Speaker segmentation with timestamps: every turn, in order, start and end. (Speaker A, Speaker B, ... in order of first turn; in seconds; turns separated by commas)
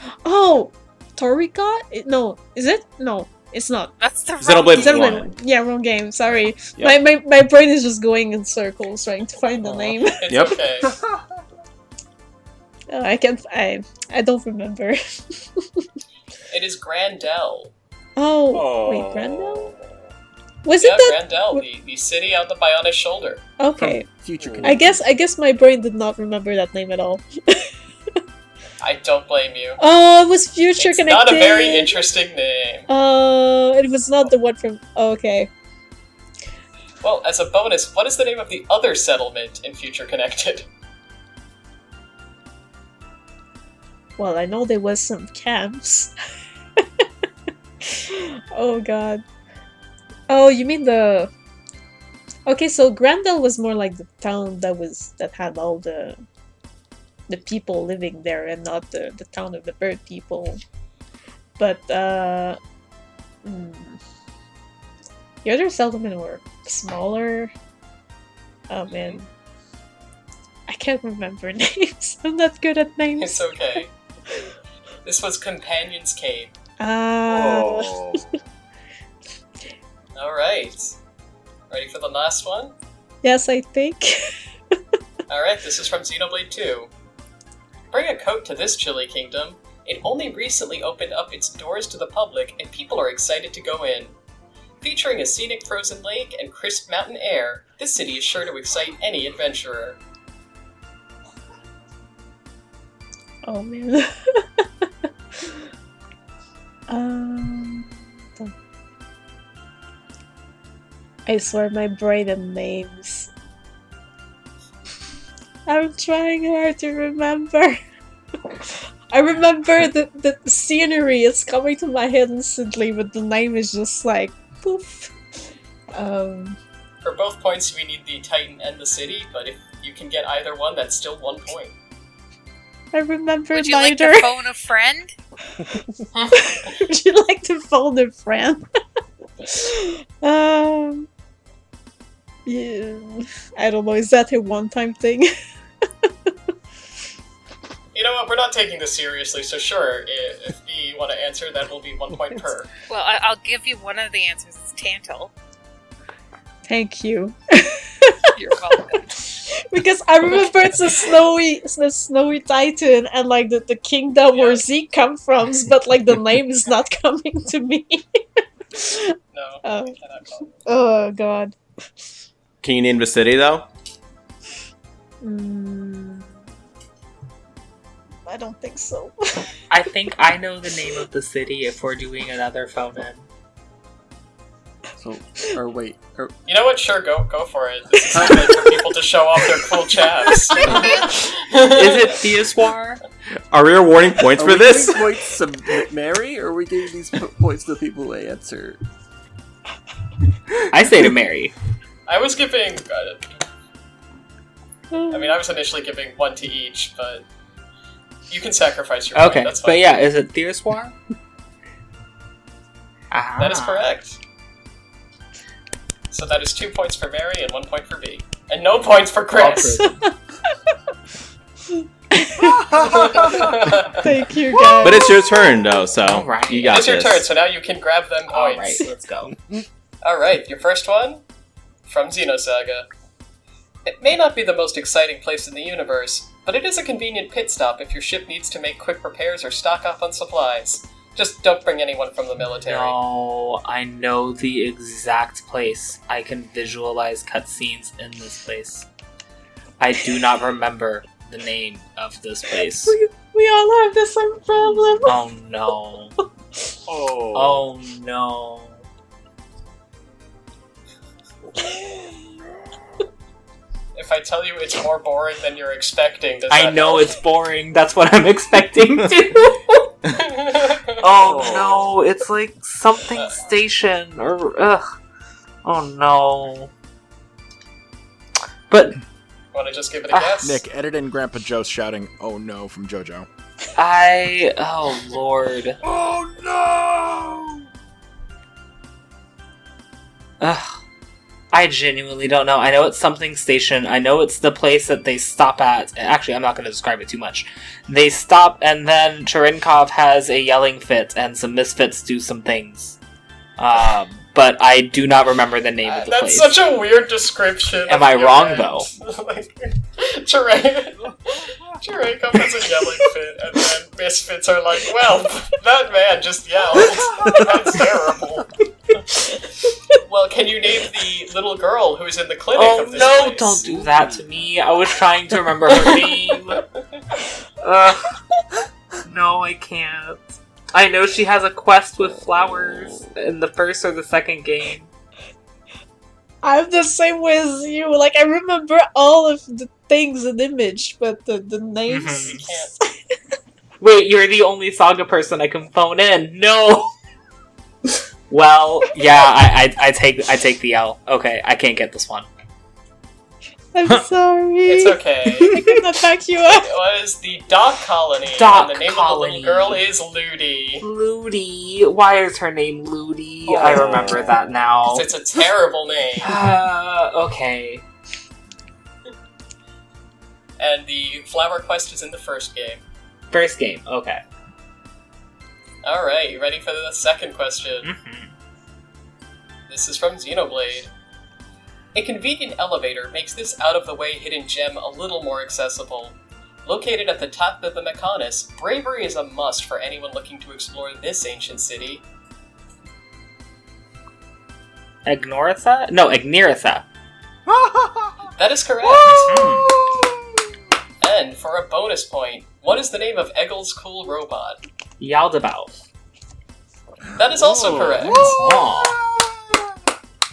Speaker A: 0.2-3.9, Speaker B: 4.0-5.1, Speaker C: 4.4-5.3, Speaker A: 4.7-10.3, Speaker D: 9.6-10.2, Speaker E: 10.2-10.9, Speaker C: 10.3-10.6, Speaker D: 10.9-11.2, Speaker A: 12.9-15.8, Speaker E: 16.5-17.7, Speaker A: 18.2-19.7, Speaker D: 18.5-19.9, Speaker A: 20.6-21.6, Speaker E: 20.8-23.4, Speaker A: 23.6-24.1, Speaker F: 23.8-25.0, Speaker D: 24.4-24.8, Speaker A: 24.6-27.7, Speaker E: 28.8-29.8, Speaker A: 29.8-32.0, Speaker E: 30.8-32.9, Speaker A: 32.9-35.5, Speaker E: 37.0-40.7, Speaker A: 44.2-46.1, Speaker A: 47.9-49.2, Speaker A: 50.3-51.3, Speaker A: 52.5-56.2, Speaker A: 57.3-60.6, Speaker A: 61.6-62.6, Speaker A: 63.4-64.0, Speaker A: 65.4-67.5, Speaker A: 68.7-69.2, Speaker A: 70.7-73.5, Speaker E: 73.2-73.9, Speaker E: 75.0-76.5, Speaker A: 76.8-78.0, Speaker D: 77.3-78.4, Speaker E: 80.2-81.0, Speaker E: 81.7-82.8, Speaker A: 83.2-84.2, Speaker E: 85.3-86.9, Speaker E: 87.9-94.1, Speaker E: 94.8-100.0, Speaker A: 103.5-104.9, Speaker A: 106.9-108.5, Speaker A: 111.3-113.3, Speaker A: 115.7-117.8, Speaker A: 118.5-125.1, Speaker A: 125.9-126.6, Speaker E: 127.0-131.7, Speaker A: 132.9-134.3, Speaker B: 133.5-135.1, Speaker A: 136.3-138.6, Speaker A: 139.4-141.1, Speaker A: 142.5-145.3, Speaker E: 147.9-152.7, Speaker B: 152.9-155.3, Speaker A: 156.7-158.2, Speaker B: 158.3-159.2, Speaker A: 159.4-168.0, Speaker E: 164.3-164.6, Speaker A: 168.7-170.0, Speaker E: 169.3-170.7, Speaker A: 170.7-171.6, Speaker C: 172.6-173.7, Speaker A: 175.2-176.4, Speaker A: 178.3-179.4, Speaker G: 179.7-183.2, Speaker F: 185.0-186.3, Speaker E: 186.5-192.3, Speaker F: 188.1-188.5, Speaker G: 190.6-193.0, Speaker B: 190.7-191.0, Speaker C: 193.5-195.2, Speaker F: 194.4-198.8, Speaker G: 200.7-201.6, Speaker E: 202.1-203.4, Speaker A: 204.9-205.4, Speaker E: 205.1-207.2, Speaker E: 208.3-209.9, Speaker G: 209.2-211.0, Speaker G: 213.1-213.9, Speaker E: 213.4-214.2, Speaker E: 216.1-219.9, Speaker G: 219.3-220.1, Speaker A: 219.8-220.1, Speaker A: 222.1-225.3, Speaker D: 222.7-223.6, Speaker E: 222.8-224.1, Speaker C: 224.8-227.2, Speaker G: 226.0-226.8, Speaker E: 226.7-228.9, Speaker G: 228.3-229.3, Speaker F: 229.3-229.6, Speaker E: 230.0-231.2, Speaker E: 231.9-232.9, Speaker E: 233.9-243.0, Speaker G: 242.6-248.9, Speaker G: 249.8-253.0, Speaker A: 252.8-255.2, Speaker G: 254.5-256.1, Speaker D: 256.9-257.6, Speaker G: 257.3-258.9, Speaker E: 263.9-267.2, Speaker G: 266.5-269.8, Speaker E: 270.1-271.7, Speaker G: 271.0-274.9, Speaker D: 271.2-271.9, Speaker E: 273.1-273.4, Speaker G: 275.6-276.7, Speaker G: 278.7-279.0, Speaker E: 279.5-280.6, Speaker G: 280.1-280.4, Speaker H: 280.4-283.3, Speaker G: 283.8-285.8, Speaker D: 285.8-287.6, Speaker G: 290.4-290.7, Speaker G: 291.5-303.0, Speaker G: 303.6-306.5, Speaker E: 305.8-318.5, Speaker G: 307.9-308.9, Speaker E: 319.9-323.7, Speaker G: 322.5-326.6, Speaker D: 323.7-324.3, Speaker E: 325.7-326.6, Speaker G: 327.6-328.1, Speaker G: 329.1-334.9, Speaker D: 332.3-333.1, Speaker A: 336.4-342.4, Speaker G: 341.9-342.5, Speaker E: 342.2-342.7, Speaker G: 343.8-346.9, Speaker G: 348.3-352.3, Speaker A: 353.7-356.7, Speaker E: 354.7-355.6, Speaker E: 356.5-360.8, Speaker G: 358.4-359.8, Speaker G: 360.8-365.1, Speaker E: 363.5-364.3, Speaker D: 363.7-364.3, Speaker E: 364.9-366.4, Speaker G: 366.2-367.9, Speaker E: 370.6-372.8, Speaker G: 373.3-374.2, Speaker E: 375.8-377.9, Speaker G: 377.8-378.3, Speaker E: 379.7-380.9, Speaker E: 381.9-392.0, Speaker G: 395.1-396.9, Speaker D: 397.5-398.3, Speaker E: 398.4-399.3, Speaker D: 398.8-400.3, Speaker G: 399.1-399.7, Speaker E: 401.0-404.6, Speaker G: 405.0-405.8, Speaker E: 407.1-408.4, Speaker D: 407.2-409.6, Speaker G: 408.0-409.0